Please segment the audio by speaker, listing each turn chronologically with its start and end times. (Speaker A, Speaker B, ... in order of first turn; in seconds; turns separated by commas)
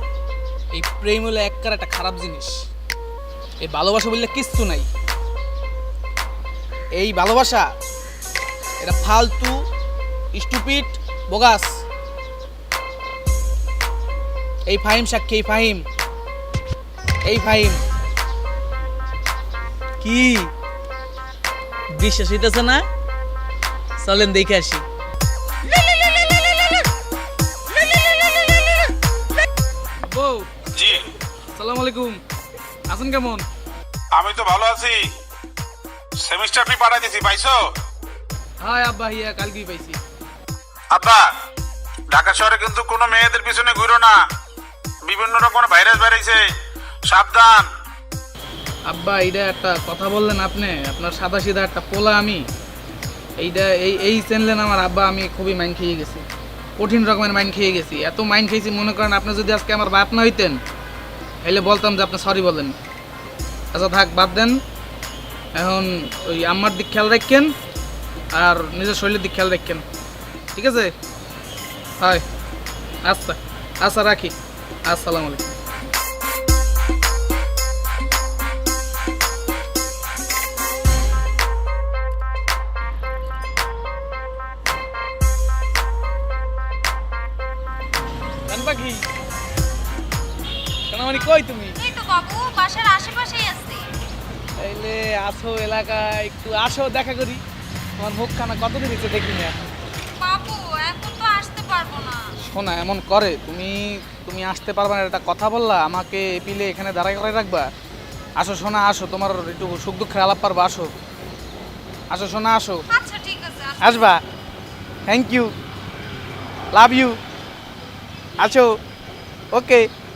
Speaker A: 0.7-2.7, Speaker A: 3.6-4.9, Speaker A: 6.9-7.7, Speaker A: 8.8-9.7, Speaker A: 10.3-11.8, Speaker A: 14.7-15.8, Speaker A: 17.2-17.8, Speaker A: 20.0-20.5, Speaker A: 21.9-22.8, Speaker A: 24.0-24.8, Speaker A: 30.1-30.5, Speaker B: 30.7-31.0, Speaker A: 31.5-32.2, Speaker A: 32.9-33.4, Speaker B: 34.1-35.0, Speaker B: 36.2-37.6, Speaker A: 38.6-40.0, Speaker B: 40.9-41.3, Speaker B: 42.1-44.2, Speaker B: 45.0-46.4, Speaker B: 47.1-47.7, Speaker A: 48.9-52.4, Speaker A: 53.4-56.2, Speaker A: 56.8-60.6, Speaker A: 61.4-62.8, Speaker A: 63.7-64.6, Speaker A: 65.5-67.5, Speaker A: 68.3-69.8, Speaker A: 70.5-70.9, Speaker A: 73.0-75.5, Speaker A: 88.5-89.0, Speaker A: 90.9-91.8, Speaker C: 91.8-93.9, Speaker A: 94.6-97.4, Speaker A: 98.0-99.6, Speaker C: 100.2-102.2, Speaker A: 102.4-107.7, Speaker A: 108.4-110.9, Speaker A: 112.1-112.8, Speaker C: 112.9-114.1, Speaker A: 113.8-114.2, Speaker A: 115.1-115.5, Speaker A: 116.7-117.2, Speaker A: 118.4-118.8, Speaker A: 119.5-119.9